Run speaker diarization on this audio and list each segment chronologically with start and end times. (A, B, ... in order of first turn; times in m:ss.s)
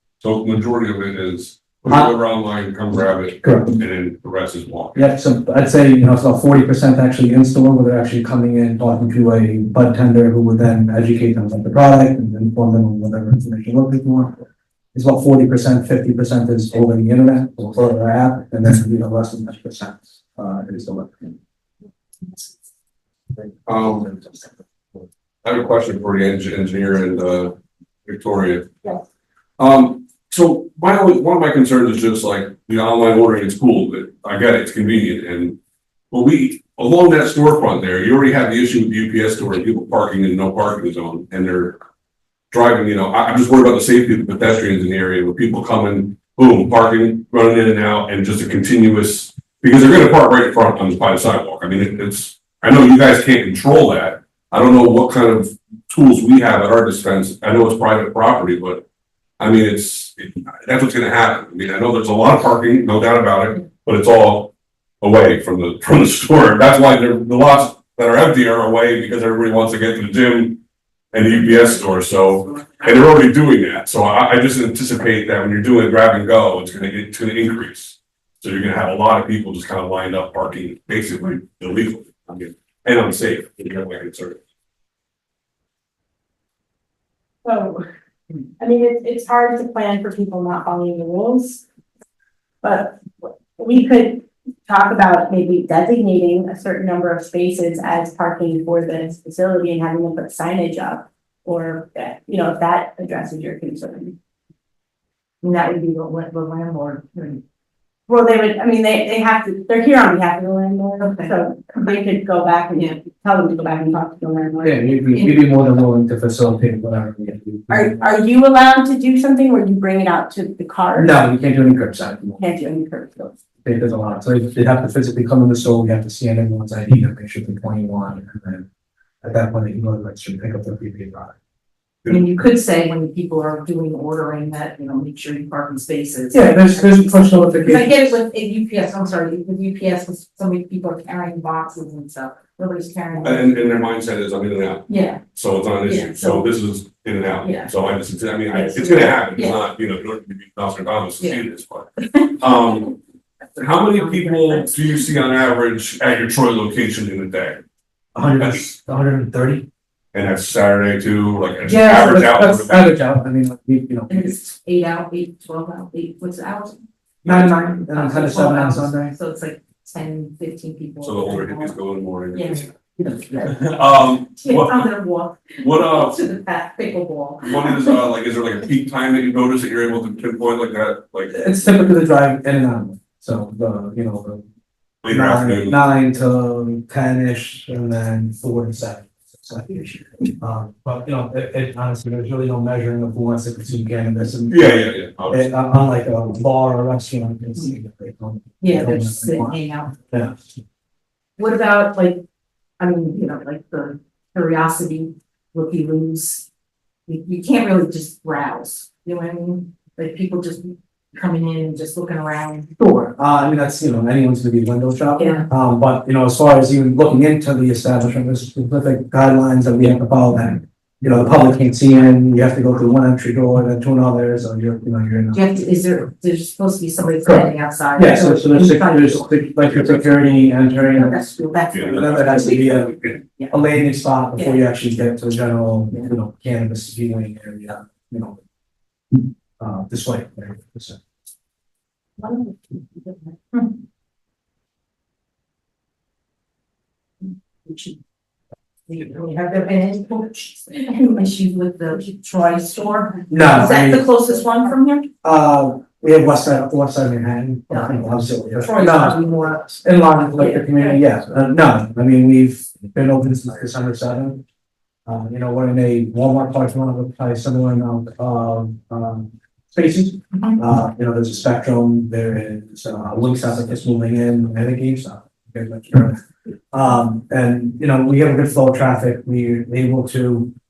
0:00.2-0:05.0 A
0:01.9-0:02.1 B
0:03.4-0:03.8 B
0:05.0-0:21.4 B
0:23.7-0:24.1 A
0:25.4-0:27.6 A
0:28.1-0:28.7 A
0:29.6-0:35.6 A
0:36.1-0:41.8 A
0:42.5-0:58.8 A
0:59.4-1:10.6 A
1:11.1-1:24.4 A
1:27.4-1:27.8 C
1:28.6-1:31.6 C
1:32.6-1:44.2 C
1:45.4-1:47.4 D
1:48.1-1:54.9 C
1:51.0-1:51.4 D
1:54.6-1:58.1 B
1:55.1-1:55.5 D
1:57.7-2:01.1 C
2:01.0-2:02.4 B
2:02.4-2:03.4 C
2:03.6-2:08.7 B
2:09.2-2:11.4 B
2:12.1-2:23.7 D
2:16.3-2:18.2 B
2:23.2-2:33.0 A
2:24.9-2:25.2 D
2:25.8-2:26.5 D
2:27.4-2:27.7 D
2:28.5-2:29.6 D
2:31.2-2:31.4 D
2:32.0-2:32.5 D
2:33.6-2:37.6 A
2:33.9-2:34.9 D
2:38.1-2:39.7 B
2:38.4-2:38.7 A
2:40.1-2:42.9 A
2:41.6-2:44.4 B
2:44.1-2:46.8 D
2:47.2-2:47.7 A
2:47.2-2:49.1 B
2:47.8-2:51.8 D
2:51.0-2:52.8 A
2:52.3-2:52.7 D
2:53.0-2:53.5 B
2:53.4-2:54.9 A
2:54.4-2:58.0 D
2:55.6-2:56.2 A
2:57.4-3:01.4 A
3:01.3-3:04.4 B
3:05.0-3:05.8 A
3:05.1-3:19.6 B
3:14.5-3:15.6 A
3:18.6-3:20.0 D
3:20.1-3:20.4 B
3:21.4-3:22.2 D
3:22.8-3:26.5 D
3:27.1-3:32.8 D
3:32.8-3:45.4 B
3:35.2-3:35.5 D
3:45.3-3:49.9 D
3:47.2-3:51.2 B
3:50.7-3:53.5 D
3:51.7-3:52.6 A
3:51.9-3:58.4 B
3:54.4-3:54.6 D
3:59.6-4:01.0 B
4:02.2-4:03.8 D
4:07.6-4:08.0 D
4:08.9-4:15.1 D
4:13.3-4:14.1 B
4:15.2-4:24.4 B
4:17.7-4:19.8 D
4:20.3-4:21.0 D
4:25.1-4:40.5 B
4:30.3-4:30.6 D